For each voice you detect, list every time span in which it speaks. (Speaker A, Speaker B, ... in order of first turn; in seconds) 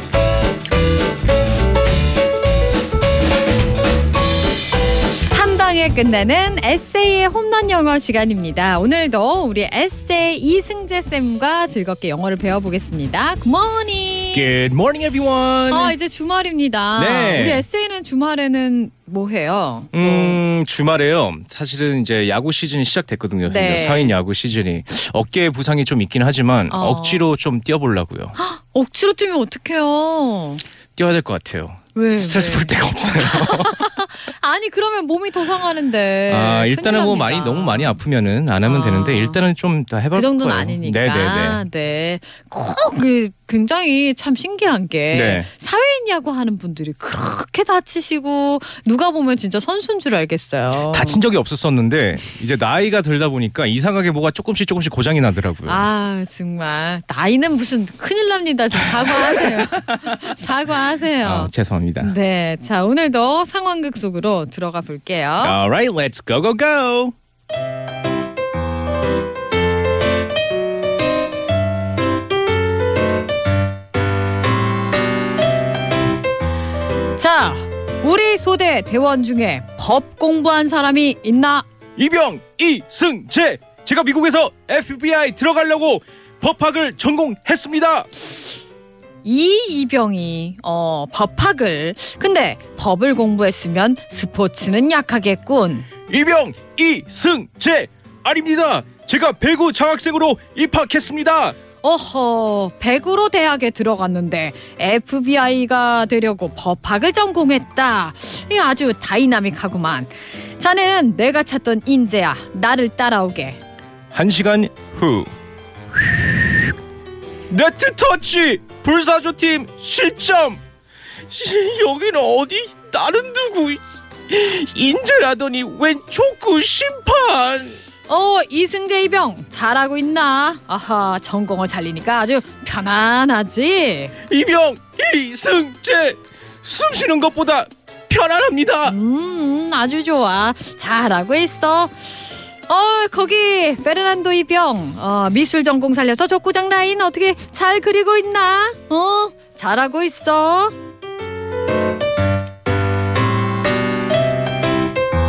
Speaker A: 5.3-14.5, 15.7-20.4, 23.5-24.1, 26.7-27.3, 28.4-30.6, 31.9-38.0, 38.6-39.4, 40.1-51.2, 55.6-65.6, 77.2-81.7, 89.2-95.9, 101.8-113.6, 128.1-134.2, 138.8-142.1, 142.7-150.7
Speaker B: 14.3-15.9, 17.0-17.6, 19.9-28.4, 31.0-33.9, 36.3-41.6, 45.1-45.5, 50.9-55.9, 58.9-60.3, 61.2-62.1, 65.4-67.1, 82.0-88.1, 96.1-101.6, 114.1-115.3, 115.9-116.7, 117.5-120.6, 121.3-127.8, 134.3-139.0